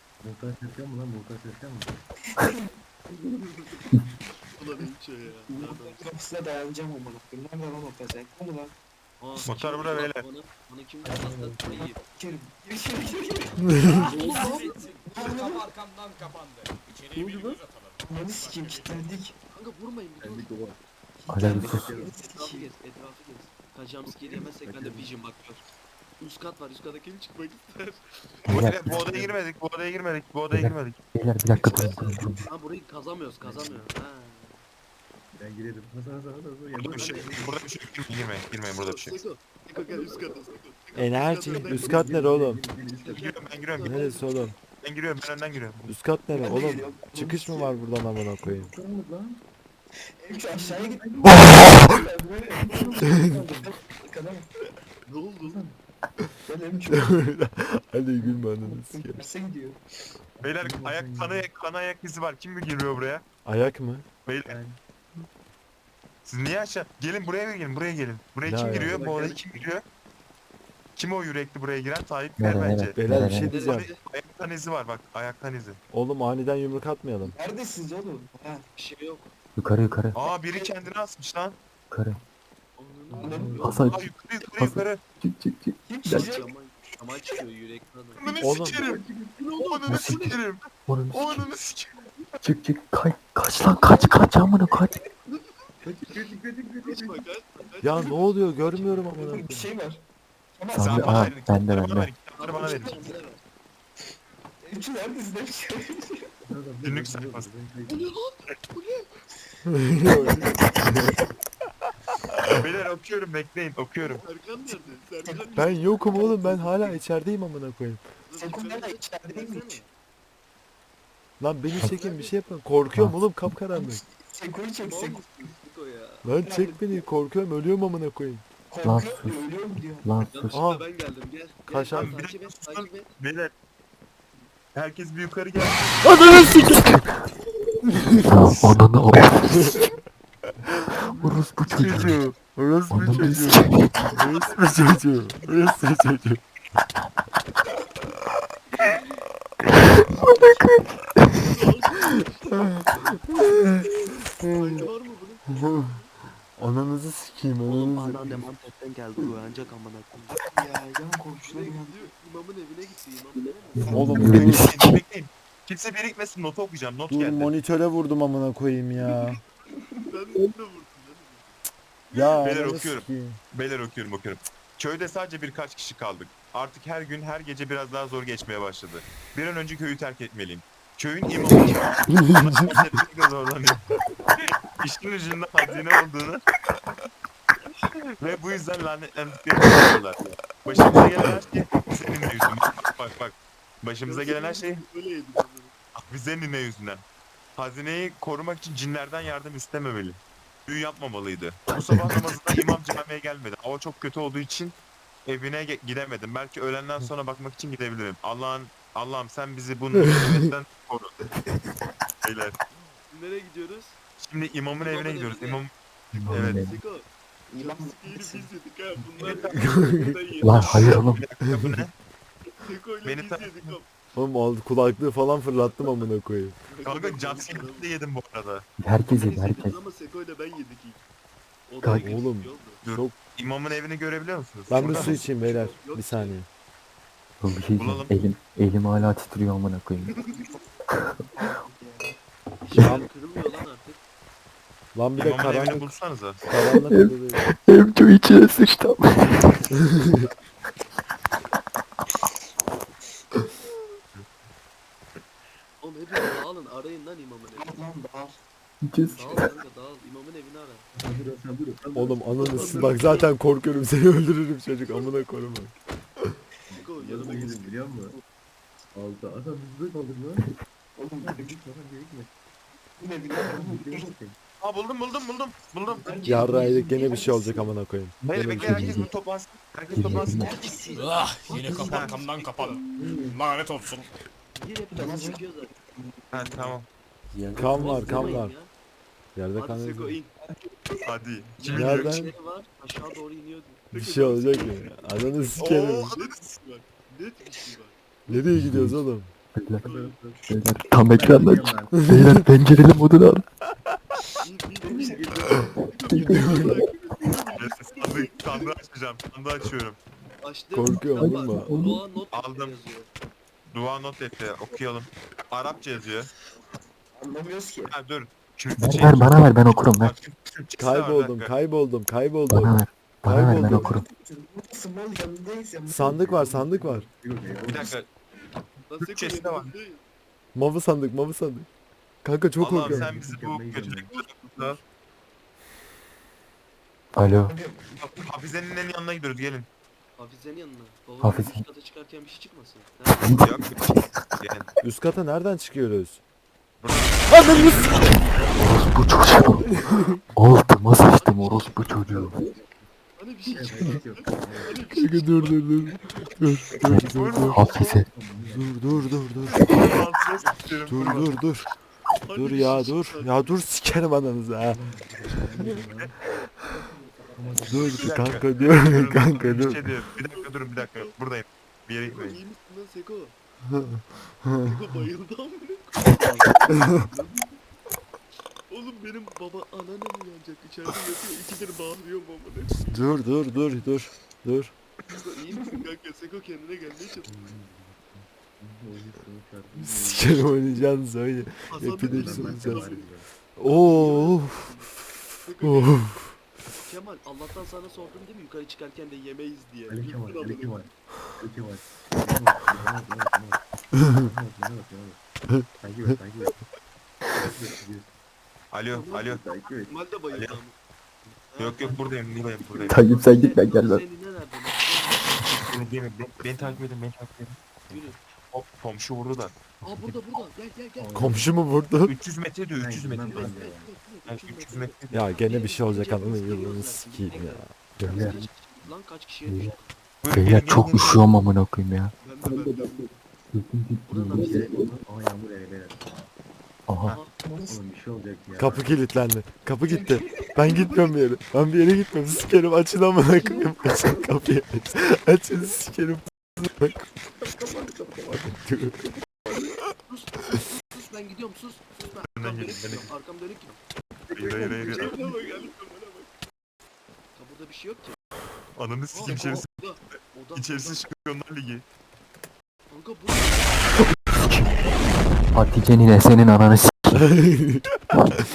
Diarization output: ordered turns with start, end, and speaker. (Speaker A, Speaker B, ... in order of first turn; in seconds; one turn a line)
Speaker A: 0.2-2.0
Speaker B: 2.3-2.8
Speaker C: 3.4-3.9
Speaker C: 4.5-6.0
Speaker B: 5.5-8.7
Speaker C: 9.2-12.0
Speaker D: 9.4-10.2
Speaker B: 9.4-10.0
Speaker A: 11.0-11.8
Speaker B: 12.1-15.7
Speaker E: 13.7-19.1
Speaker C: 14.0-14.9
Speaker B: 17.1-19.3
Speaker C: 19.5-20.5
Speaker A: 20.2-20.8
Speaker B: 21.2-22.7
Speaker F: 21.3-21.9
Speaker C: 21.4-25.6
Speaker A: 21.4-22.1
Speaker A: 24.2-25.1
Speaker C: 26.2-28.9
Speaker F: 28.4-29.0
Speaker D: 28.5-31.0
Speaker A: 29.0-29.3
Speaker F: 30.5-32.4
Speaker B: 31.6-32.2
Speaker C: 31.7-34.6
Speaker A: 33.4-33.8
Speaker A: 35.3-37.6
Speaker D: 36.7-39.2
Speaker C: 36.9-37.6
Speaker C: 38.7-42.1
Speaker A: 39.8-40.4
Speaker G: 41.0-42.6
Speaker A: 41.7-43.4
Speaker C: 43.0-44.5
Speaker D: 43.0-44.0
Speaker G: 43.8-44.5
Speaker D: 44.8-45.9
Speaker G: 45.9-48.7
Speaker B: 46.3-47.8
Speaker A: 48.5-49.4
Speaker B: 50.2-54.5
Speaker A: 50.5-51.6
Speaker G: 51.3-51.8
Speaker A: 52.7-53.7
Speaker C: 55.0-55.6
Speaker A: 55.4-55.8
Speaker B: 56.4-57.2
Speaker G: 56.9-59.2
Speaker B: 58.2-59.8
Speaker A: 60.4-61.5
Speaker D: 60.4-63.2
Speaker G: 63.4-64.0
Speaker D: 64.2-64.5
Speaker A: 64.4-64.8
Speaker D: 66.2-69.8
Speaker G: 68.4-69.0
Speaker A: 68.7-69.4
Speaker B: 68.9-69.4
Speaker D: 71.0-73.0
Speaker F: 72.4-73.5
Speaker G: 73.0-73.9
Speaker C: 73.4-74.0
Speaker D: 73.6-75.8
Speaker G: 75.9-77.3
Speaker B: 77.2-78.6
Speaker C: 78.8-79.3
Speaker F: 79.5-80.2
Speaker D: 80.1-81.6
Speaker F: 81.9-82.2
Speaker C: 82.8-83.9
Speaker A: 83.1-83.8
Speaker B: 83.2-83.8
Speaker F: 83.6-86.3
Speaker D: 83.9-85.0
Speaker B: 85.8-87.4
Speaker C: 86.1-88.5
Speaker D: 88.2-89.0
Speaker G: 88.4-88.8
Speaker A: 88.8-89.4
Speaker C: 89.4-90.4
Speaker D: 89.5-92.0
Speaker F: 89.9-91.5
Speaker F: 92.4-94.9
Speaker B: 94.7-95.0
Speaker C: 95.3-96.1
Speaker A: 95.8-97.2
Speaker C: 96.8-99.1
Speaker G: 97.8-99.7
Speaker B: 99.0-100.0
Speaker B: 100.6-101.3
Speaker F: 100.7-102.1
Speaker D: 100.8-103.1
Speaker C: 102.4-103.4
Speaker B: 102.5-103.1
Speaker B: 104.6-106.3
Speaker A: 106.5-108.1
Speaker D: 106.8-107.5
Speaker C: 107.8-109.1
Speaker G: 109.7-111.1
Speaker C: 110.0-111.2
Speaker D: 112.5-114.2
Speaker C: 114.1-117.0
Speaker B: 114.2-116.3
Speaker G: 115.5-118.0
Speaker C: 118.2-119.9
Speaker B: 118.4-119.8
Speaker G: 121.4-124.0
Speaker C: 121.8-122.4
Speaker F: 122.9-123.5
Speaker B: 123.7-125.2
Speaker C: 124.8-126.2
Speaker G: 126.2-128.4
Speaker B: 126.4-127.0
Speaker B: 128.7-130.2
Speaker F: 128.8-129.4
Speaker F: 130.0-130.6
Speaker C: 130.2-133.1
Speaker G: 130.5-130.8
Speaker G: 131.7-132.1
Speaker D: 131.9-133.5
Speaker D: 134.7-136.1
Speaker G: 136.0-136.9
Speaker F: 136.3-137.1
Speaker G: 138.0-138.3
Speaker F: 138.2-139.7
Speaker G: 139.5-139.8
Speaker F: 141.1-142.2
Speaker G: 141.7-146.4
Speaker F: 142.9-144.1
Speaker C: 144.1-145.0
Speaker F: 150.3-150.6
Speaker C: 150.3-150.6
Speaker C: 151.3-153.9
Speaker G: 153.3-153.8
Speaker G: 154.4-154.8
Speaker C: 154.5-156.7
Speaker G: 155.5-156.0
Speaker G: 156.6-158.4
Speaker C: 157.6-160.4
Speaker B: 160.3-162.1
Speaker C: 161.5-164.3
Speaker F: 163.7-165.0
Speaker B: 163.8-164.5
Speaker G: 163.9-164.7
Speaker D: 164.3-167.5
Speaker G: 167.1-169.4
Speaker C: 169.0-169.3
Speaker C: 170.1-171.6
Speaker C: 172.1-172.5
Speaker G: 172.1-173.4
Speaker D: 172.4-183.9
Speaker G: 182.2-182.7
Speaker D: 184.4-186.4
Speaker D: 188.2-194.8
Speaker C: 194.1-195.7
Speaker D: 196.0-197.0
Speaker D: 197.6-211.1
Speaker F: 201.7-202.7
Speaker G: 210.0-210.4
Speaker D: 212.2-212.6
Speaker C: 213.1-214.0
Speaker D: 214.2-216.7
Speaker C: 214.8-215.6
Speaker F: 216.2-216.7
Speaker C: 216.2-217.1
Speaker B: 217.5-218.5
Speaker C: 217.6-221.2
Speaker D: 219.2-219.6
Speaker G: 219.5-220.2
Speaker F: 220.4-221.2
Speaker D: 220.6-221.9
Speaker G: 221.5-221.8
Speaker C: 222.6-223.9
Speaker D: 223.0-223.7
Speaker G: 224.1-226.6
Speaker C: 225.6-226.1
Speaker C: 226.7-227.9
Speaker D: 226.8-228.6
Speaker F: 228.8-229.8
Speaker C: 229.1-231.0
Speaker C: 231.7-232.8
Speaker G: 232.0-233.2
Speaker D: 232.8-235.2
Speaker C: 234.7-236.4
Speaker G: 234.7-236.5
Speaker F: 237.4-240.1
Speaker D: 237.8-238.1
Speaker C: 240.0-240.6
Speaker B: 240.2-242.2
Speaker C: 242.6-244.0
Speaker G: 242.8-243.0
Speaker G: 244.9-245.9
Speaker D: 245.2-246.4
Speaker G: 246.5-247.4
Speaker F: 246.8-249.8
Speaker C: 255.8-257.8
Speaker B: 257.5-258.4
Speaker F: 258.8-259.5
Speaker C: 259.1-260.9
Speaker A: 260.9-263.3
Speaker G: 261.9-266.3
Speaker C: 262.4-263.3
Speaker A: 266.7-268.1
Speaker C: 266.8-268.2
Speaker A: 268.9-270.5
Speaker B: 271.0-271.6
Speaker A: 271.2-272.3
Speaker B: 273.0-274.1
Speaker A: 273.4-274.4
Speaker D: 274.6-276.2
Speaker B: 275.9-277.7
Speaker G: 276.2-279.0
Speaker D: 278.2-280.6
Speaker C: 278.6-279.1
Speaker F: 278.8-279.1
Speaker F: 279.9-280.5
Speaker C: 279.9-282.3
Speaker B: 280.0-282.1
Speaker E: 280.9-284.1
Speaker D: 281.6-282.5
Speaker A: 282.9-283.4
Speaker C: 284.6-285.8
Speaker B: 284.9-286.7
Speaker D: 286.3-286.9
Speaker F: 287.3-288.4
Speaker G: 287.6-288.5
Speaker C: 287.6-288.7
Speaker G: 289.4-290.2
Speaker C: 289.6-290.3
Speaker B: 290.4-291.1
Speaker D: 291.0-292.2
Speaker C: 291.6-298.5
Speaker G: 291.7-292.3
Speaker G: 293.9-296.1
Speaker D: 295.6-296.4
Speaker G: 298.3-299.3
Speaker F: 298.5-299.0
Speaker F: 299.6-299.8
Speaker C: 299.8-300.2
Speaker A: 299.8-302.1
Speaker F: 300.5-303.4
Speaker G: 301.9-302.4
Speaker C: 304.4-308.7
Speaker B: 304.8-305.4
Speaker A: 304.9-305.7
Speaker F: 306.1-306.9
Speaker D: 307.5-310.0
Speaker C: 310.4-313.1
Speaker G: 310.7-311.7
Speaker F: 311.2-312.0
Speaker D: 312.3-312.7
Speaker D: 313.7-316.3
Speaker B: 317.1-317.9
Speaker D: 317.8-321.5
Speaker F: 318.8-320.1
Speaker G: 320.8-323.9
Speaker F: 322.5-324.0
Speaker B: 323.7-327.0
Speaker G: 325.9-327.1
Speaker A: 326.9-327.9
Speaker D: 327.7-328.1
Speaker C: 328.9-330.0
Speaker D: 329.0-329.7
Speaker G: 330.5-331.7
Speaker G: 332.2-333.1
Speaker D: 332.6-334.8
Speaker A: 332.8-334.1
Speaker C: 334.1-334.8
Speaker F: 337.1-337.5
Speaker B: 337.4-338.5
Speaker D: 337.9-339.7
Speaker C: 340.2-343.5
Speaker F: 341.2-341.6
Speaker F: 343.2-344.1
Speaker D: 343.4-344.7
Speaker G: 344.8-346.2
Speaker D: 346.8-348.4
Speaker G: 347.3-347.9
Speaker C: 347.7-348.7
Speaker F: 348.5-349.6
Speaker C: 349.3-349.7
Speaker G: 349.7-350.1
Speaker F: 350.3-352.4
Speaker C: 351.1-352.4
Speaker A: 352.1-352.8
Speaker C: 353.1-356.3
Speaker A: 353.5-354.8
Speaker G: 354.9-357.6
Speaker F: 356.9-358.1
Speaker D: 357.1-357.9
Speaker A: 357.8-359.3
Speaker G: 358.5-359.9
Speaker D: 359.5-361.4
Speaker G: 360.9-361.7
Speaker C: 362.2-363.6
Speaker G: 362.3-364.8
Speaker A: 364.6-366.1
Speaker A: 367.3-368.1
Speaker C: 367.6-371.1
Speaker G: 367.6-369.9
Speaker D: 368.0-372.4
Speaker C: 372.0-373.3
Speaker G: 373.7-374.7
Speaker C: 374.6-377.6
Speaker C: 378.7-383.0
Speaker G: 382.9-384.7
Speaker C: 385.2-387.3
Speaker B: 385.5-385.8
Speaker A: 387.2-390.7
Speaker G: 389.8-392.9
Speaker C: 391.7-393.1
Speaker A: 392.0-393.2
Speaker G: 393.6-394.6
Speaker C: 393.6-396.2
Speaker G: 395.6-396.3
Speaker C: 396.7-400.8
Speaker A: 399.9-405.2
Speaker G: 405.5-406.1
Speaker A: 405.8-406.6
Speaker A: 407.3-408.2
Speaker D: 408.7-409.4
Speaker C: 408.9-410.7
Speaker A: 409.2-409.9
Speaker D: 410.3-410.6
Speaker C: 411.3-416.8
Speaker D: 411.6-413.0
Speaker F: 412.9-414.0
Speaker D: 415.6-419.6
Speaker C: 417.9-418.2
Speaker C: 419.8-421.4
Speaker A: 419.9-420.2
Speaker A: 421.0-421.5
Speaker G: 421.1-422.1
Speaker D: 422.1-423.6
Speaker A: 422.8-423.9
Speaker C: 423.3-430.1
Speaker D: 424.2-425.2
Speaker G: 425.1-427.7
Speaker F: 428.0-428.4
Speaker F: 429.4-429.7
Speaker D: 430.2-431.3
Speaker F: 430.3-432.1
Speaker C: 432.2-433.1
Speaker F: 433.5-434.9
Speaker C: 434.1-434.8
Speaker A: 434.3-436.0
Speaker F: 436.9-437.1
Speaker C: 437.1-437.3
Speaker B: 437.4-437.8
Speaker A: 437.7-438.9
Speaker G: 438.6-447.0
Speaker B: 439.9-440.9
Speaker B: 443.3-444.3
Speaker B: 447.4-448.5
Speaker G: 448.3-449.0
Speaker C: 450.0-453.8
Speaker D: 452.3-453.1
Speaker D: 454.3-455.2
Speaker B: 454.4-455.2
Speaker C: 454.5-456.3
Speaker C: 457.3-458.2
Speaker D: 458.7-459.6
Speaker C: 459.1-461.1
Speaker D: 460.5-461.8
Speaker C: 462.9-464.0
Speaker F: 464.3-464.7
Speaker F: 465.5-467.3
Speaker G: 467.2-467.8